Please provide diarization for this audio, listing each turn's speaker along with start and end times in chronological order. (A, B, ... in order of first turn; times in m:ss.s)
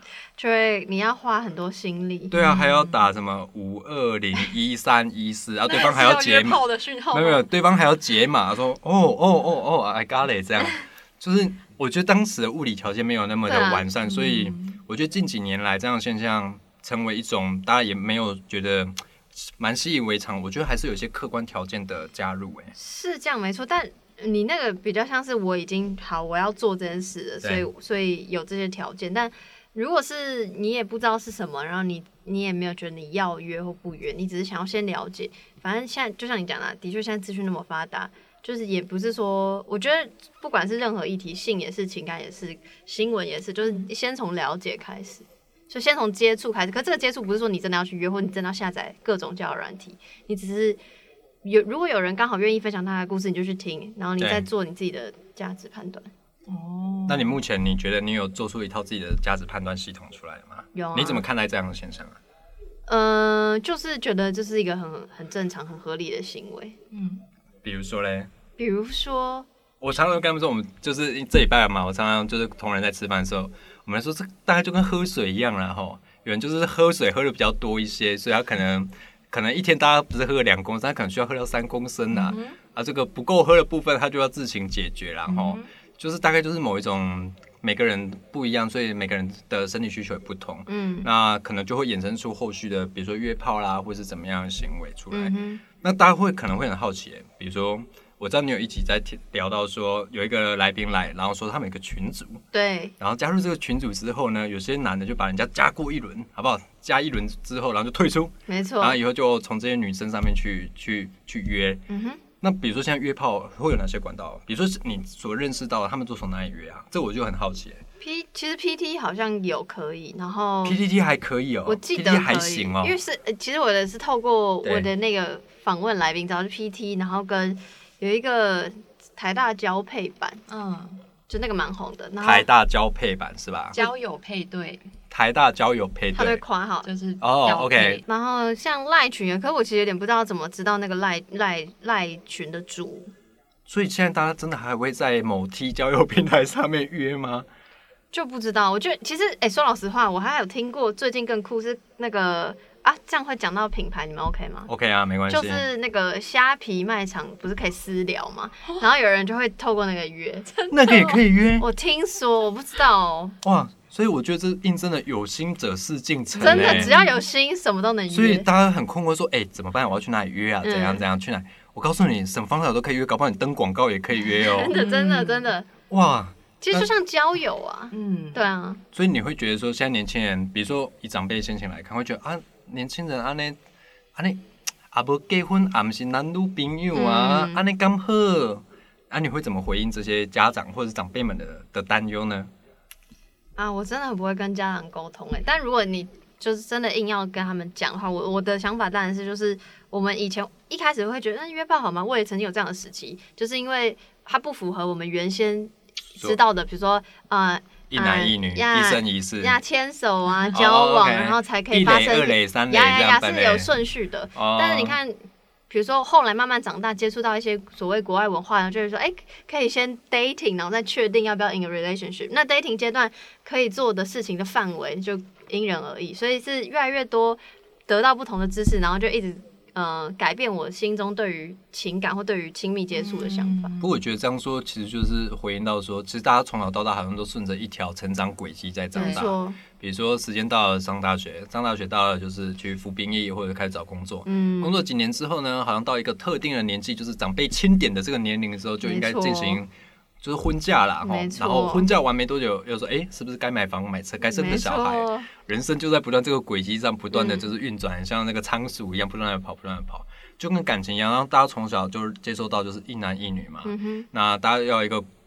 0:00.4-0:02.3 A
0:02.3-0:22.7 B
0:02.3-0:03.0 C
0:05.6-0:07.5 C
0:13.4-0:13.9 A
0:14.0-0:14.8 C
0:22.8-0:50.8 A
0:27.4-0:27.7 B
0:51.4-0:56.1 A
0:54.2-0:54.4 B
0:56.5-0:57.4 C
0:57.1-1:02.2 B
1:00.7-1:01.2 A
1:02.9-1:06.8 A
1:06.9-1:07.2 C
1:07.6-1:08.3 B
1:08.6-1:09.5 A
1:09.8-1:42.4 B
1:22.1-1:22.6 C
1:25.3-1:25.7 C
1:30.7-1:31.1 A
1:35.1-1:35.6 A
1:42.5-1:42.9 A
1:43.0-1:51.8 B
1:48.5-1:49.0 A
1:51.9-1:52.2 A
1:52.4-1:57.8 B
1:58.0-2:00.8 A
2:00.6-2:02.9 B
2:01.6-2:10.4 A
2:04.6-2:04.9 B
2:10.5-2:11.0 C
2:11.3-2:12.5 A
2:12.2-2:13.8 B
2:13.7-2:14.9 C
2:15.1-2:16.4 B
2:16.1-2:16.9 A
2:16.8-2:18.0 C
2:17.2-2:18.0 B
2:18.0-2:23.1 A
2:23.7-2:27.5 B
2:28.1-2:34.7 A
2:34.7-2:35.6 B
2:35.3-2:43.4 A
2:40.5-2:41.2 C
2:40.7-2:41.6 B
2:43.4-2:46.9 B
2:46.3-2:47.2 C
2:46.4-2:48.5 A
2:48.1-2:54.7 B
2:50.6-2:51.0 A
2:54.3-2:55.7 A
2:54.7-2:55.5 C
2:55.9-2:56.9 B
2:56.6-2:58.8 A
2:57.9-2:58.4 C
2:58.9-3:03.6 B
3:04.2-3:12.5 B
3:06.9-3:07.6 A
3:13.6-3:53.7 A
3:27.9-3:29.6 B
3:30.5-3:33.7 B
3:34.3-3:35.0 B
3:52.9-3:53.9 C
3:53.8-4:09.7 B
3:58.9-3:59.2 C
3:58.9-3:59.6 A
4:04.2-4:04.8 A
4:08.8-4:09.6 A
4:10.2-4:25.1 B
4:11.0-4:11.8 A
4:14.2-4:15.3 A
4:17.1-4:17.4 A
4:23.6-4:24.1 A